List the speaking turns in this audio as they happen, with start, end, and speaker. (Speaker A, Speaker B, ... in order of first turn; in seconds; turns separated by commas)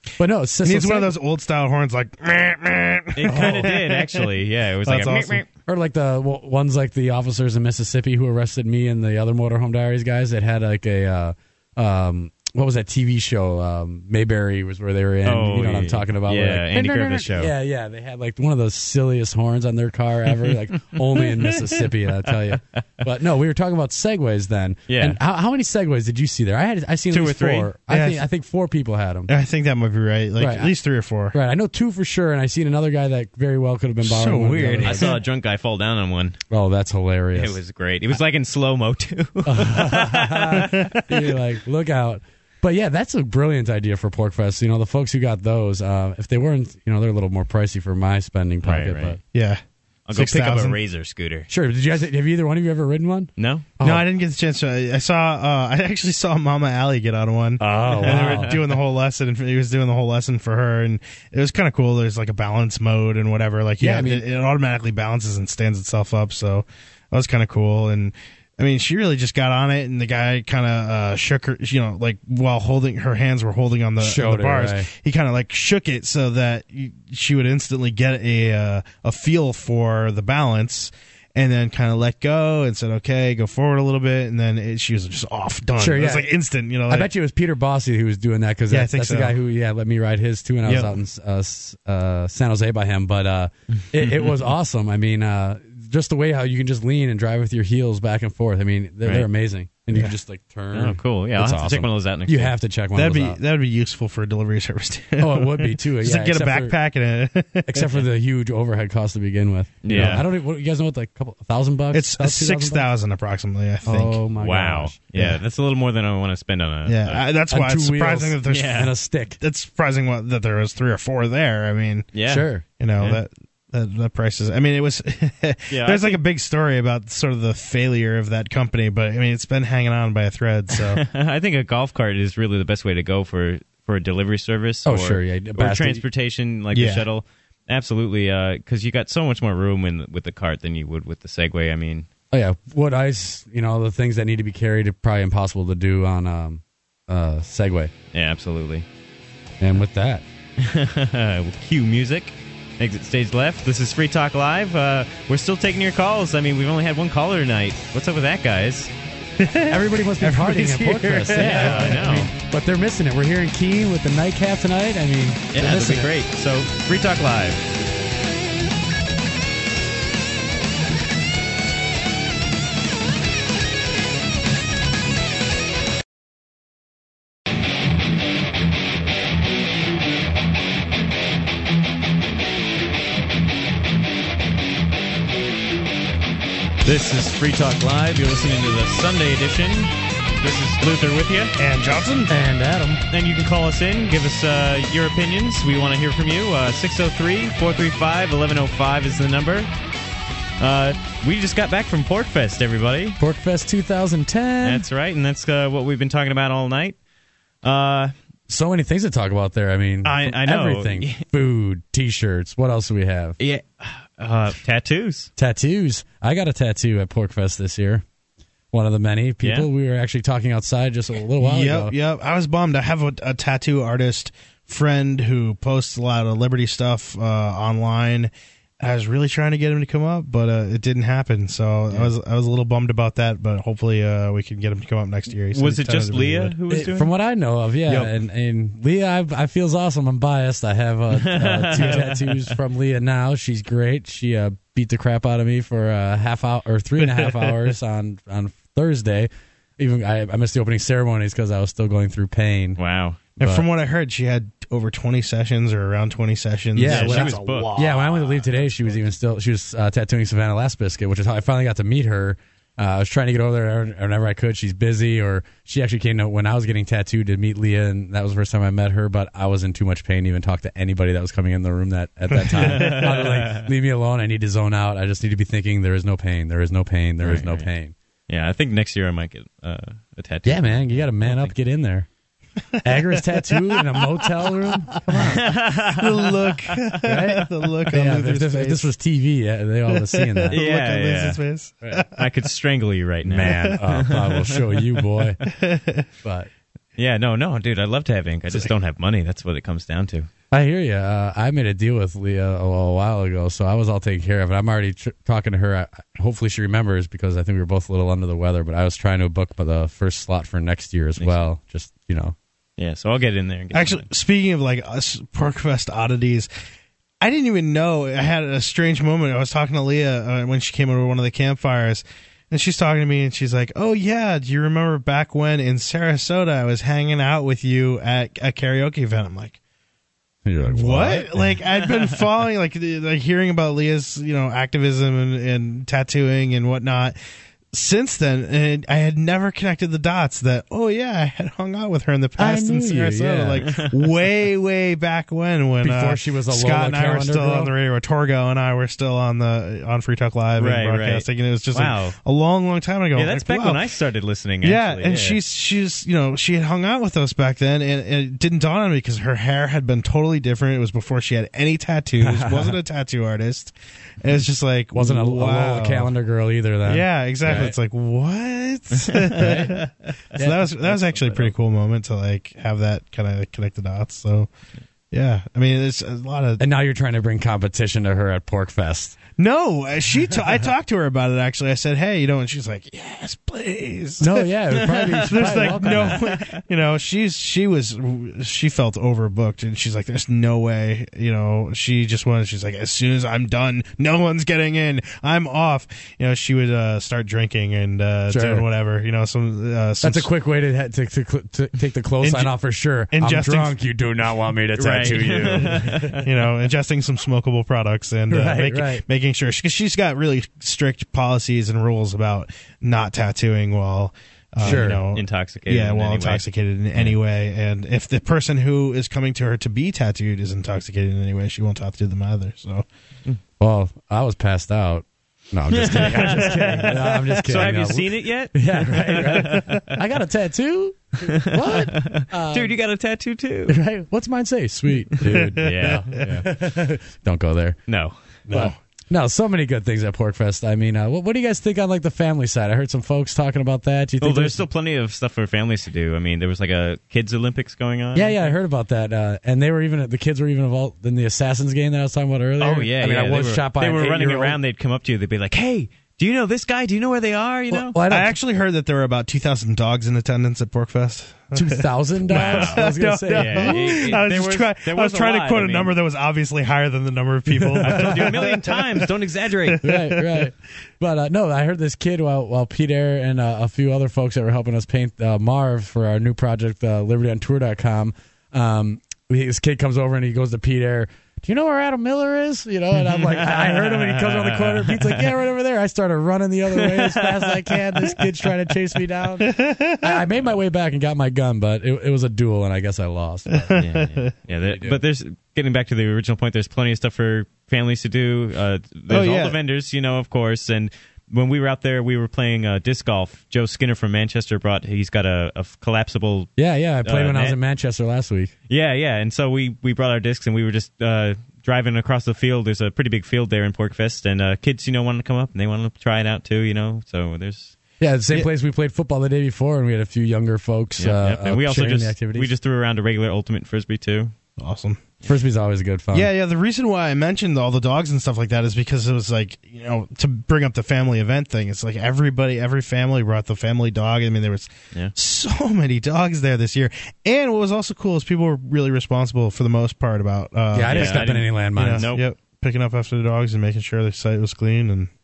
Speaker A: 0.2-1.1, Speaker B: 0.6-4.3, Speaker C: 3.1-5.5, Speaker A: 3.3-3.6, Speaker B: 4.8-5.4, Speaker A: 5.7-29.3, Speaker C: 15.2-17.5, Speaker C: 20.9-21.6, Speaker C: 24.9-25.2, Speaker C: 27.1-27.7, Speaker B: 27.9-28.2, Speaker B: 29.3-31.4, Speaker A: 30.4-30.7, Speaker A: 31.3-35.1, Speaker B: 34.0-35.2, Speaker C: 34.8-36.4, Speaker A: 36.5-37.6, Speaker C: 37.3-40.7, Speaker A: 39.5-49.2, Speaker B: 40.6-41.3, Speaker C: 48.6-49.2, Speaker B: 49.3-50.8, Speaker C: 50.1-51.5, Speaker A: 51.5-54.1, Speaker C: 53.4-53.7, Speaker B: 53.8-87.1, Speaker A: 57.6-58.5, Speaker C: 58.0-58.6, Speaker A: 63.8-64.2, Speaker A: 74.0-74.9, Speaker A: 85.8-86.3, Speaker A: 86.9-103.4, Speaker B: 88.7-89.3, Speaker B: 90.7-91.0, Speaker C: 94.0-94.3, Speaker C: 100.7-102.5, Speaker B: 102.9-107.9, Speaker A: 105.2-106.7, Speaker A: 107.7-112.9, Speaker C: 109.8-110.2, Speaker B: 109.9-110.2, Speaker B: 111.9-114.2, Speaker A: 113.8-115.0, Speaker C: 114.4-117.2, Speaker B: 115.1-115.4, Speaker B: 116.8-122.1, Speaker A: 117.5-119.4, Speaker C: 118.4-118.9, Speaker C: 122.1-122.5, Speaker A: 122.3-122.6, Speaker B: 122.8-131.0, Speaker C: 125.7-126.2, Speaker C: 130.9-142.1, Speaker A: 134.8-136.0, Speaker B: 136.7-137.1, Speaker A: 142.3-147.9, Speaker C: 148.1-148.8, Speaker A: 149.6-150.2, Speaker C: 150.6-158.9, Speaker B: 159.4-162.0, Speaker A: 159.7-166.1, Speaker C: 161.3-162.3, Speaker C: 165.5-167.7, Speaker C: 186.8-191.6, Speaker B: 191.6-192.3, Speaker A: 192.3-193.0, Speaker C: 193.1-199.7, Speaker C: 200.6-203.2, Speaker A: 203.2-204.8, Speaker C: 204.6-207.0, Speaker C: 207.6-208.1, Speaker A: 208.5-213.4, Speaker C: 210.0-211.2, Speaker C: 213.4-215.3, Speaker A: 215.4-218.0, Speaker A: 218.7-221.9, Speaker C: 219.4-219.7, Speaker B: 221.4-236.6, Speaker C: 235.5-237.1, Speaker A: 236.7-252.8, Speaker C: 241.2-242.5, Speaker C: 252.8-253.2, Speaker A: 253.4-253.7, Speaker B: 253.4-259.0, Speaker A: 256.7-277.9, Speaker C: 256.8-257.7, Speaker B: 272.5-272.9, Speaker C: 272.6-273.7, Speaker C: 277.2-277.7, Speaker C: 278.3-281.5, Speaker A: 280.4-282.1, Speaker B: 282.8-285.4, Speaker A: 282.8-285.4, Speaker C: 285.3-287.0, Speaker B: 285.9-288.9, Speaker A: 287.0-290.6, Speaker B: 289.9-292.3, Speaker C: 290.5-291.4, Speaker C: 292.1-294.4, Speaker A: 293.2-295.4, Speaker B: 293.4-293.9, Speaker B: 295.4-296.1, Speaker A: 296.2-296.5, Speaker C: 297.0-300.3, Speaker A: 300.5-312.4, Speaker C: 312.8-314.1, Speaker B: 313.7-316.5, Speaker B: 317.2-329.6, Speaker A: 330.4-331.6, Speaker B: 330.7-337.1, Speaker B: 337.7-353.9, Speaker A: 342.4-343.6, Speaker C: 343.6-343.9, Speaker A: 345.8-347.7, Speaker C: 350.6-352.2, Speaker C: 353.1-355.4, Speaker B: 354.6-366.1, Speaker A: 362.2-362.8, Speaker A: 364.9-367.7, Speaker B: 366.8-374.5, Speaker A: 369.4-369.7, Speaker A: 370.4-371.5, Speaker B: 375.1-376.6, Speaker A: 376.6-379.2, Speaker B: 379.4-400.3, Speaker A: 384.2-386.2, Speaker C: 385.5-386.6, Speaker A: 398.3-398.6, Speaker A: 400.0-406.1, Speaker B: 402.2-402.5, Speaker B: 403.1-403.8, Speaker C: 404.8-406.3, Speaker B: 405.0-422.9, Speaker A: 408.3-409.0, Speaker A: 414.6-415.0, Speaker C: 414.6-417.1, Speaker A: 423.6-432.7, Speaker C: 425.7-429.7, Speaker C: 431.2-433.8, Speaker A: 433.7-437.8, Speaker C: 435.2-436.4, Speaker B: 435.2-436.2, Speaker C: 437.9-438.2, Speaker B: 438.5-438.8, Speaker A: 438.5-444.6, Speaker C: 444.2-448.5, Speaker A: 448.1-454.6, Speaker C: 452.6-457.9, Speaker A: 457.7-458.4, Speaker B: 458.0-469.1, Speaker A: 461.5-464.1, Speaker C: 462.3-465.9, Speaker A: 467.5-468.3, Speaker C: 467.8-469.8, Speaker B: 469.6-470.5, Speaker A: 469.8-493.8, Speaker C: 483.1-485.3, Speaker C: 486.8-487.2, Speaker B: 489.4-490.2, Speaker B: 493.5-494.3, Speaker C: 493.8-506.5, Speaker A: 494.7-495.0, Speaker B: 499.1-499.6, Speaker A: 506.6-508.5, Speaker C: 507.0-507.6, Speaker C: 508.7-517.7, Speaker A: 518.0-522.5, Speaker C: 521.0-524.3, Speaker B: 524.6-525.1, Speaker A: 525.2-526.3, Speaker B: 526.1-545.1, Speaker A: 540.7-542.1, Speaker C: 540.9-542.2